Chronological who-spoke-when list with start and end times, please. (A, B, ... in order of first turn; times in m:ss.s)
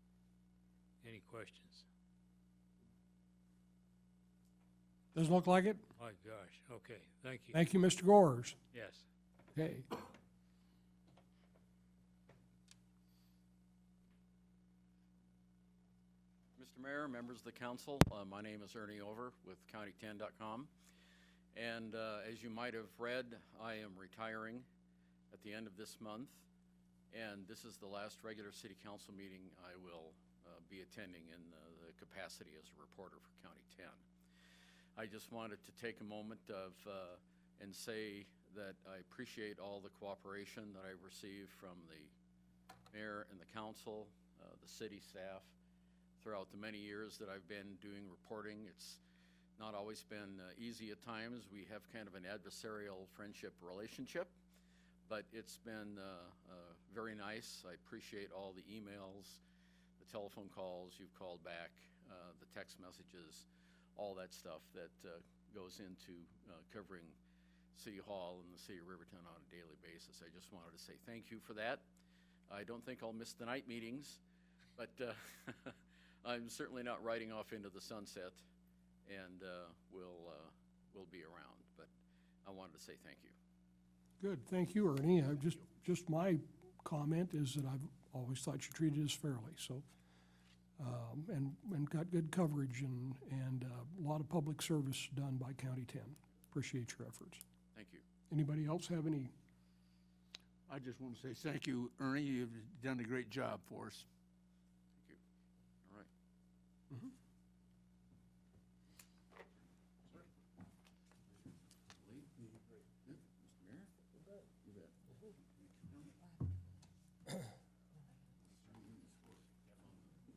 0:01.0-0:01.9 A
0:05.1-0:05.8 B
0:06.0-0:07.6 A
0:07.5-0:08.6 B
0:08.7-0:09.1 A
0:09.5-0:09.9 B
0:16.6-0:20.7 C
0:21.5-0:24.7 C
0:25.3-0:26.5 C
0:27.1-0:34.0 C
0:35.0-0:42.1 C
0:42.9-0:45.6 C
0:46.2-0:49.0 C
0:49.6-0:54.3 C
0:55.1-0:59.4 C
1:00.0-1:07.2 C
1:07.7-1:11.9 C
1:12.5-1:14.2 C
1:14.8-1:18.4 C
1:19.1-1:21.9 C
1:22.4-1:23.4 C
1:24.2-1:29.8 B
1:30.8-1:37.4 B
1:37.7-1:38.0 C
1:38.3-1:39.3 B
1:40.7-1:44.1 D
1:51.3-1:52.4 C
1:53.0-1:54.0 C
1:54.6-1:55.0 C
1:55.6-1:56.2 C
1:58.5-2:00.2 C